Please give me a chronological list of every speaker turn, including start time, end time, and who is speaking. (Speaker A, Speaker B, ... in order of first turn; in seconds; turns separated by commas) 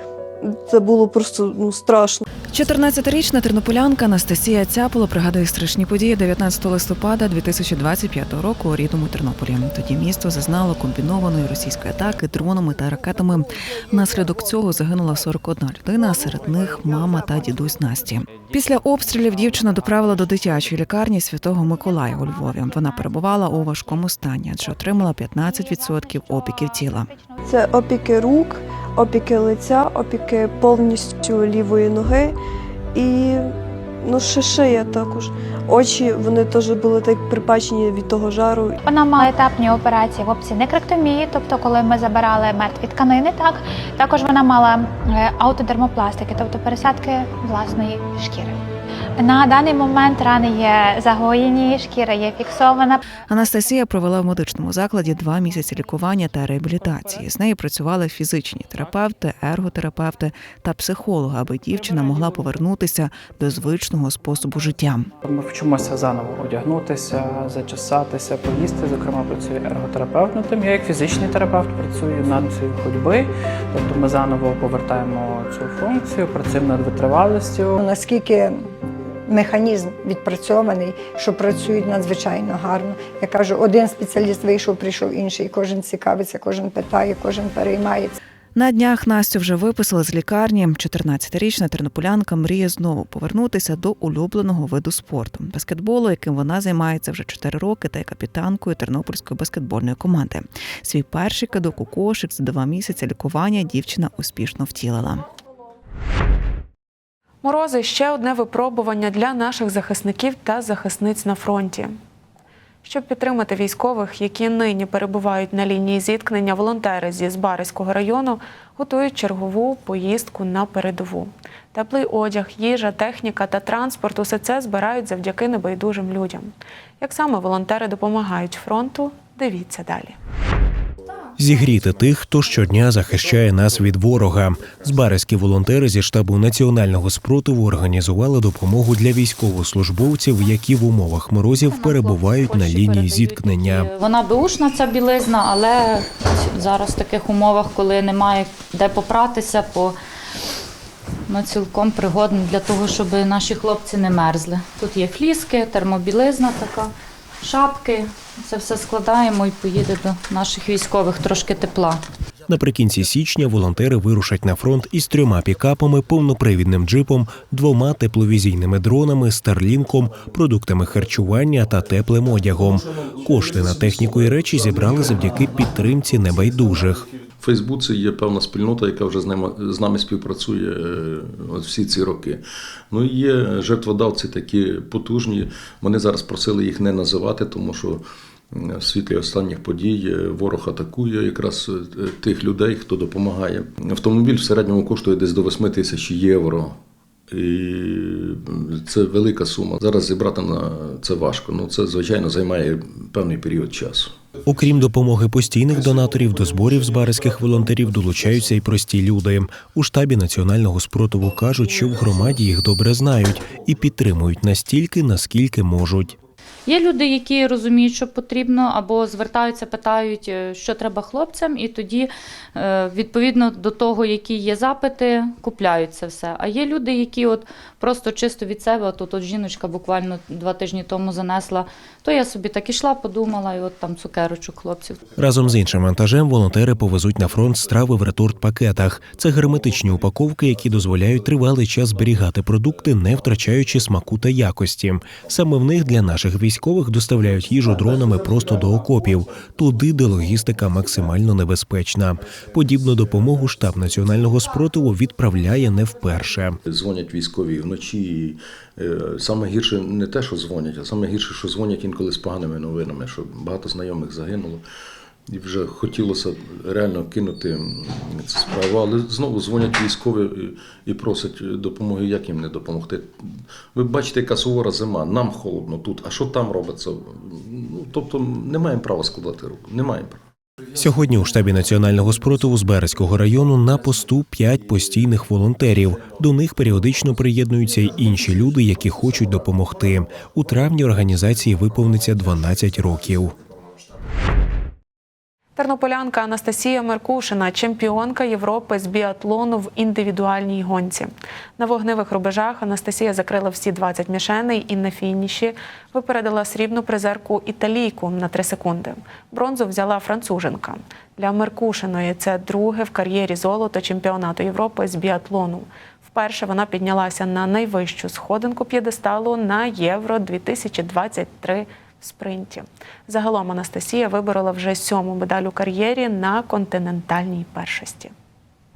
Speaker A: 0.5-2.2, Speaker B: 2.5-27.1, Speaker C: 26.1-26.5, Speaker A: 27.5-32.3, Speaker A: 33.0-33.4, Speaker A: 34.1-38.8, Speaker C: 38.8-48.6, Speaker C: 49.2-53.1, Speaker B: 53.3-65.1, Speaker D: 65.2-77.8, Speaker E: 77.8-78.5, Speaker E: 79.3-88.1, Speaker B: 88.5-105.2, Speaker F: 107.4-111.9, Speaker F: 112.8-130.2, Speaker G: 131.4-143.9, Speaker H: 141.6-149.9, Speaker H: 151.3-156.9, Speaker H: 157.4-162.0, Speaker G: 162.5-177.1, Speaker I: 177.4-196.8, Speaker I: 197.3-204.1, Speaker G: 204.5-216.2, Speaker H: 216.7-235.0, Speaker G: 235.2-256.6, Speaker I: 256.7-264.6, Speaker I: 265.3-280.2, Speaker G: 280.8-293.3, Speaker F: 295.6-328.1